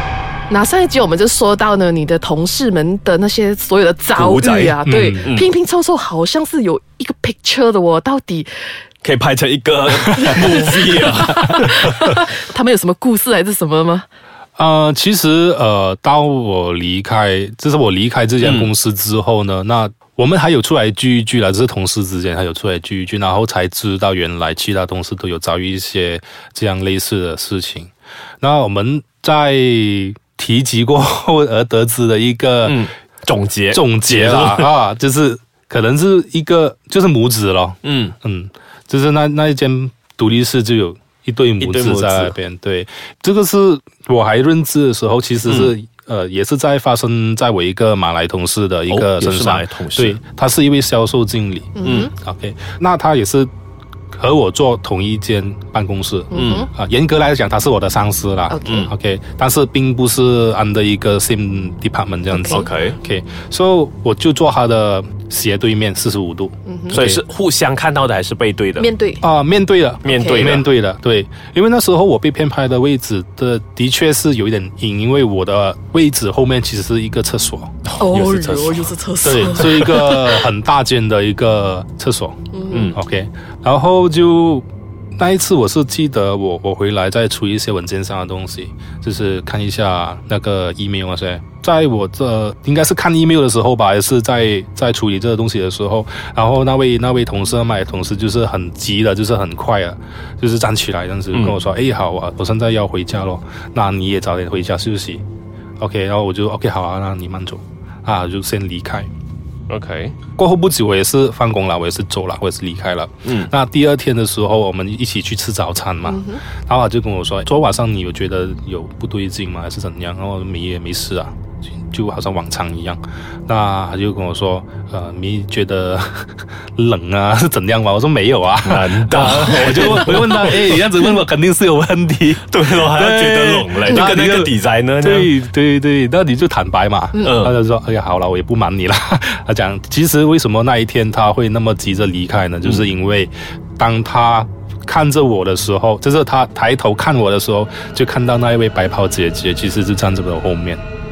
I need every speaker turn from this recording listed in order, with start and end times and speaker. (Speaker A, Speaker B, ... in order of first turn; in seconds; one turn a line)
Speaker A: 0.5-8.5
Speaker B: 4.1-5.5
Speaker C: 4.8-5.3
Speaker B: 9.0-12.3
Speaker C: 9.9-10.2
Speaker A: 10.1-14.0
Speaker C: 14.6-32.9
Speaker B: 18.4-18.7
Speaker B: 32.6-34.8
Speaker C: 33.7-53.5
Speaker B: 37.8-38.1
Speaker B: 41.6-42.4
Speaker B: 45.5-45.7
Speaker B: 48.9-50.2
Speaker A: 51.8-52.1
Speaker B: 51.8-52.1
Speaker C: 54.1-67.2
Speaker A: 56.3-56.7
Speaker B: 56.4-56.6
Speaker A: 58.5-58.9
Speaker B: 58.6-58.9
Speaker A: 62.4-62.7
Speaker B: 62.5-63.0
Speaker A: 66.7-67.0
Speaker B: 66.9-68.9
Speaker A: 68.8-69.2
Speaker C: 69.2-77.7
Speaker B: 70.0-70.7
Speaker A: 70.0-70.6
Speaker B: 77.8-78.9
Speaker A: 78.0-80.5
Speaker C: 79.2-84.7
Speaker B: 79.5-80.0
Speaker A: 82.5-82.9
Speaker B: 82.7-83.0
Speaker C: 85.2-105.2
Speaker B: 101.3-101.6
Speaker C: 105.8-109.1
Speaker B: 109.7-110.2
Speaker C: 110.3-150.8
Speaker B: 113.2-113.5
Speaker A: 116.0-116.4
Speaker B: 128.6-130.8
Speaker B: 132.4-135.3
Speaker A: 137.1-137.4
Speaker B: 137.2-137.6
Speaker B: 142.6-142.9